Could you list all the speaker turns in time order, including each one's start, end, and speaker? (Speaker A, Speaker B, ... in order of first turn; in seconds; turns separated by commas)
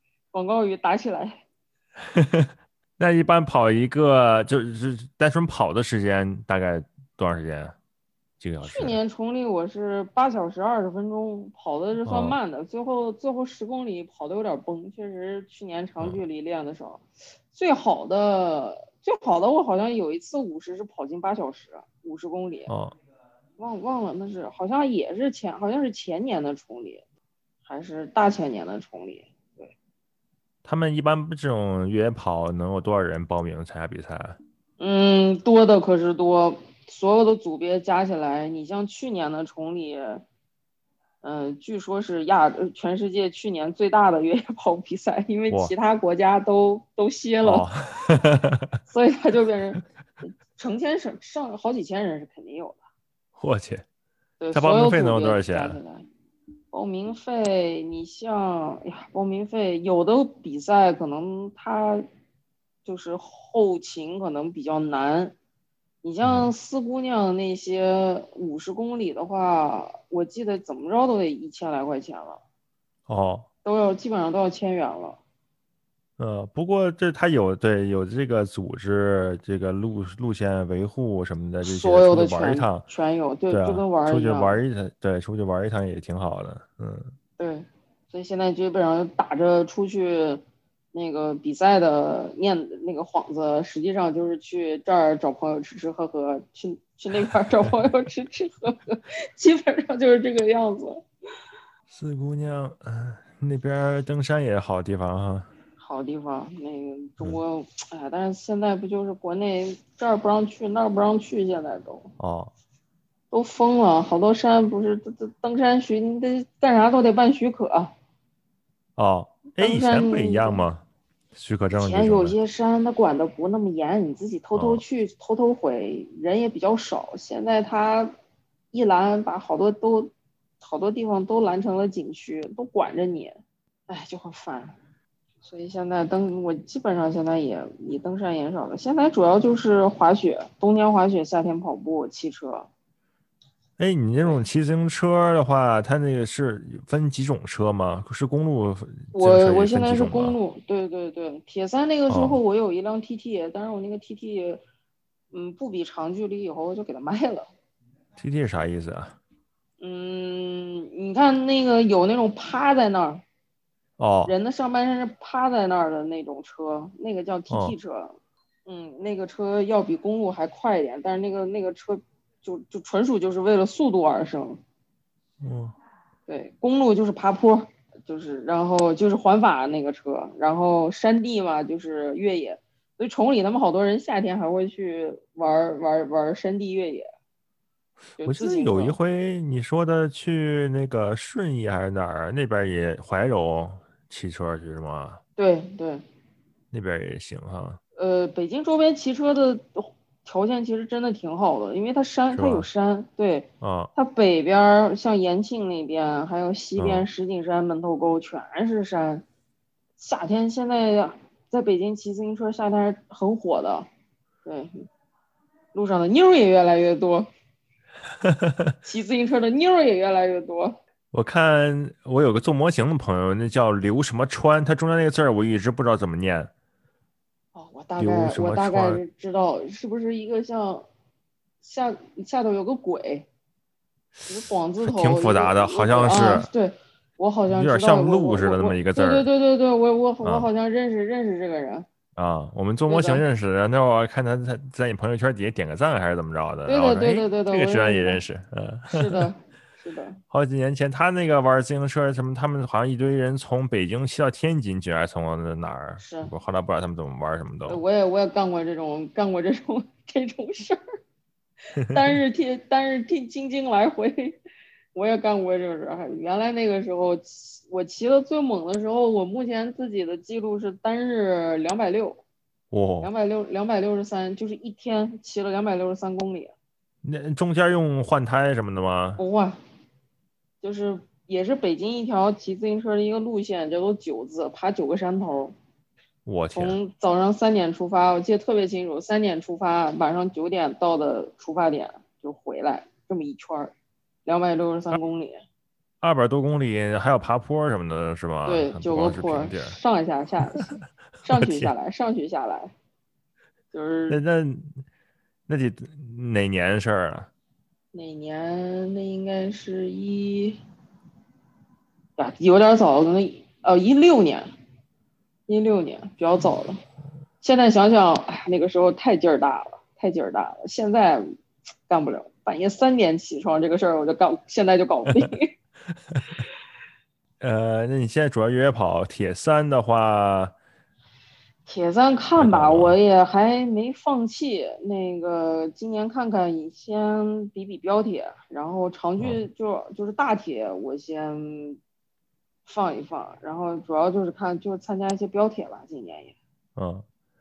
Speaker A: 0.3-1.4, Speaker B: 2.0-7.8, Speaker B: 8.4-9.0, Speaker A: 8.6-22.7, Speaker B: 12.0-12.4, Speaker B: 22.7-22.9, Speaker A: 23.6-27.0, Speaker A: 27.6-29.7, Speaker B: 30.6-34.4, Speaker A: 34.8-40.2, Speaker A: 41.2-47.7, Speaker B: 47.4-48.8, Speaker A: 48.9-52.8, Speaker B: 53.4-53.8, Speaker A: 54.4-56.0, Speaker B: 54.5-55.8, Speaker A: 56.7-62.0, Speaker A: 62.8-65.3, Speaker A: 66.0-72.4, Speaker B: 66.2-66.5, Speaker B: 73.1-73.5, Speaker A: 73.6-75.2, Speaker B: 76.2-82.8, Speaker A: 81.6-84.5, Speaker B: 83.5-87.1, Speaker A: 87.4-90.4, Speaker A: 90.9-101.0, Speaker B: 97.3-97.7, Speaker B: 101.9-105.5, Speaker A: 105.8-112.1, Speaker B: 112.2-112.5, Speaker A: 113.3-117.9, Speaker B: 119.0-122.3, Speaker A: 119.6-120.6, Speaker A: 121.7-128.1, Speaker B: 124.5-124.8, Speaker A: 128.7-134.8, Speaker A: 135.4-142.7, Speaker B: 143.8-150.3, Speaker A: 149.1-154.6, Speaker B: 152.1-152.4, Speaker A: 155.3-157.5, Speaker B: 158.2-159.2, Speaker A: 159.8-163.2, Speaker B: 164.0-164.3, Speaker A: 164.2-168.1, Speaker B: 167.5-167.7, Speaker A: 168.7-174.6, Speaker B: 175.4-175.7, Speaker A: 176.3-187.1, Speaker A: 188.2-188.9, Speaker B: 188.2-195.2, Speaker A: 195.4-196.0, Speaker B: 196.7-197.8, Speaker A: 197.9-209.2, Speaker B: 202.3-202.7, Speaker B: 203.6-203.9, Speaker B: 206.8-207.1, Speaker A: 210.0-213.9, Speaker A: 214.4-214.9, Speaker A: 215.7-217.3, Speaker B: 218.2-218.8, Speaker A: 218.8-220.8, Speaker B: 221.1-226.5, Speaker A: 227.5-230.8, Speaker B: 228.0-229.0, Speaker A: 231.6-233.3, Speaker A: 234.3-241.9, Speaker B: 234.8-236.5, Speaker B: 237.5-239.3, Speaker B: 240.2-240.5, Speaker B: 242.2-249.3, Speaker A: 242.9-243.2, Speaker A: 246.7-248.2, Speaker A: 248.9-250.2, Speaker B: 250.3-257.8, Speaker A: 256.0-256.3, Speaker A: 257.6-260.8, Speaker A: 261.8-264.4, Speaker A: 264.9-272.2, Speaker B: 272.7-273.1, Speaker A: 273.0-276.5, Speaker B: 277.0-279.2, Speaker A: 279.2-279.6, Speaker A: 280.6-285.5, Speaker B: 286.2-286.8, Speaker A: 286.5-293.7, Speaker A: 294.2-295.4, Speaker B: 296.0-299.8, Speaker A: 298.4-302.7, Speaker B: 301.3-301.7, Speaker A: 303.7-304.2, Speaker B: 304.1-304.8, Speaker B: 305.5-307.3, Speaker A: 307.9-310.6, Speaker A: 312.2-314.5, Speaker A: 315.5-316.8, Speaker A: 317.4-321.2, Speaker A: 321.9-325.5, Speaker B: 326.1-326.4, Speaker B: 327.4-330.5, Speaker A: 331.6-341.8, Speaker B: 332.4-333.0, Speaker B: 339.2-339.4, Speaker A: 342.6-346.3, Speaker B: 346.8-347.0